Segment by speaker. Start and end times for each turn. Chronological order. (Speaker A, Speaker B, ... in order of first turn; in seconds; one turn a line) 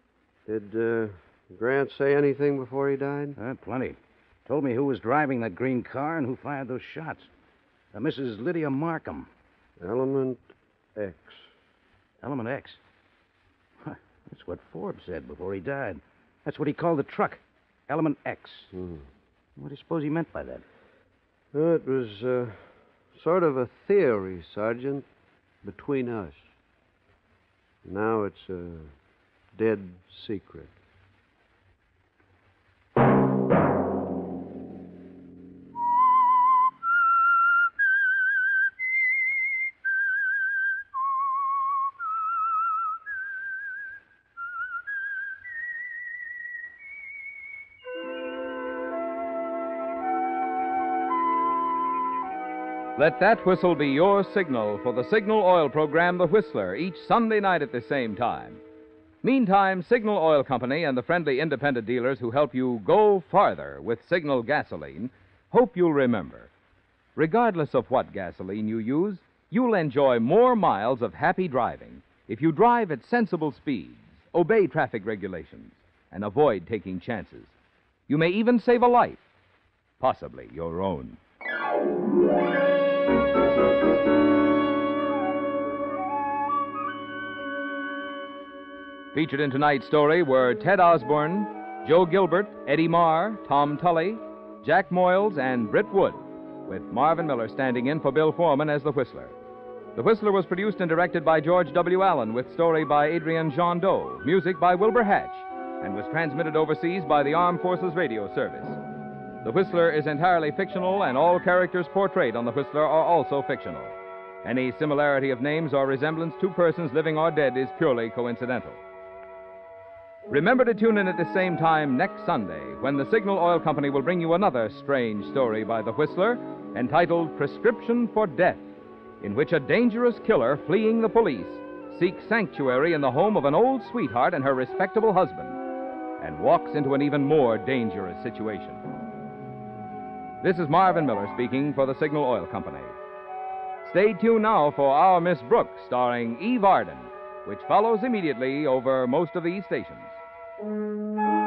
Speaker A: 0.5-3.3
Speaker B: 3.4-7.3
Speaker B: 7.9-9.3
Speaker A: 9.8-10.4
Speaker A: 10.9-11.4
Speaker B: 12.2-12.8
Speaker B: 13.8-18.7
Speaker A: 18.7-19.1
Speaker B: 19.6-20.6
Speaker A: 21.5-25.1
Speaker A: 25.6-26.4
Speaker A: 27.8-28.9
Speaker A: 29.5-30.7
Speaker C: 53.0-58.6
Speaker C: 59.2-66.5
Speaker C: 67.2-77.5
Speaker C: 78.1-79.2
Speaker C: 80.0-81.2
Speaker C: 89.1-99.3
Speaker C: 99.9-108.8
Speaker C: 109.4-118.8
Speaker C: 120.3-128.7
Speaker C: 129.2-135.6
Speaker C: 136.2-138.8
Speaker C: 140.4-142.9
Speaker C: 143.8-150.2